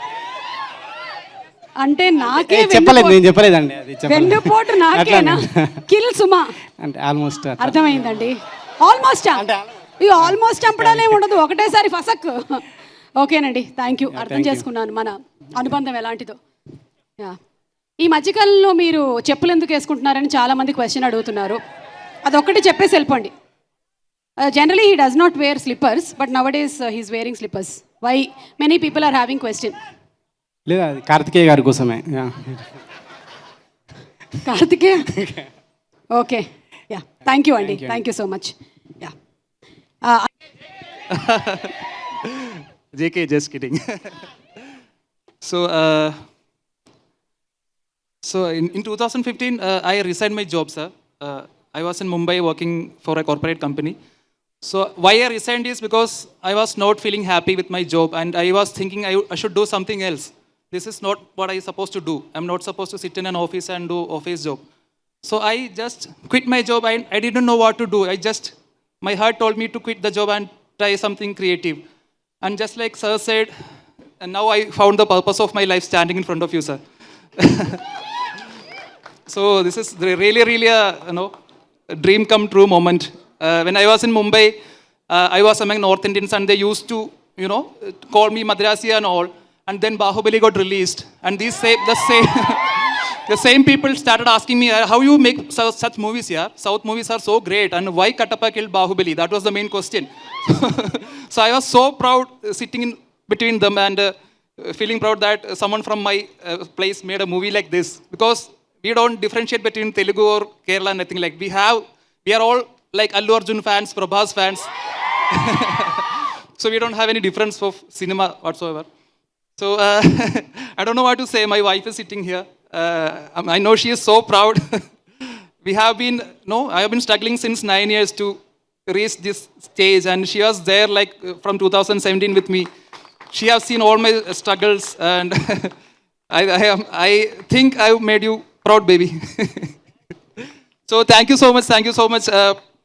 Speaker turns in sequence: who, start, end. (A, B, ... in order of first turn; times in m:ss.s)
0:01.8-0:03.2 A
0:02.2-0:05.8 B
0:04.1-0:06.6 A
0:06.8-0:08.2 B
0:07.6-0:09.4 A
0:09.4-0:11.2 B
0:10.0-0:12.6 A
0:13.2-0:16.4 A
0:14.1-0:14.7 B
0:18.0-0:21.6 A
0:22.2-0:23.3 A
0:24.4-0:29.8 A
0:30.7-0:32.7 B
0:34.4-0:35.1 A
0:35.1-0:35.5 B
0:36.1-0:39.1 A
0:37.6-0:38.0 B
0:41.1-0:44.2 C
0:45.4-0:46.2 C
0:48.2-0:54.0 C
0:54.6-1:04.6 C
1:05.2-1:11.8 C
1:12.4-1:13.5 C
1:14.2-1:16.8 C
1:17.4-1:17.8 C
1:19.3-1:21.3 C
1:21.9-1:24.6 C
1:25.1-1:54.7 C
1:55.3-1:56.1 C
1:56.6-1:58.9 C
1:59.6-2:04.9 C
2:05.6-2:12.7 C
2:13.3-2:15.7 C
2:16.3-2:19.7 C
2:20.9-2:22.6 C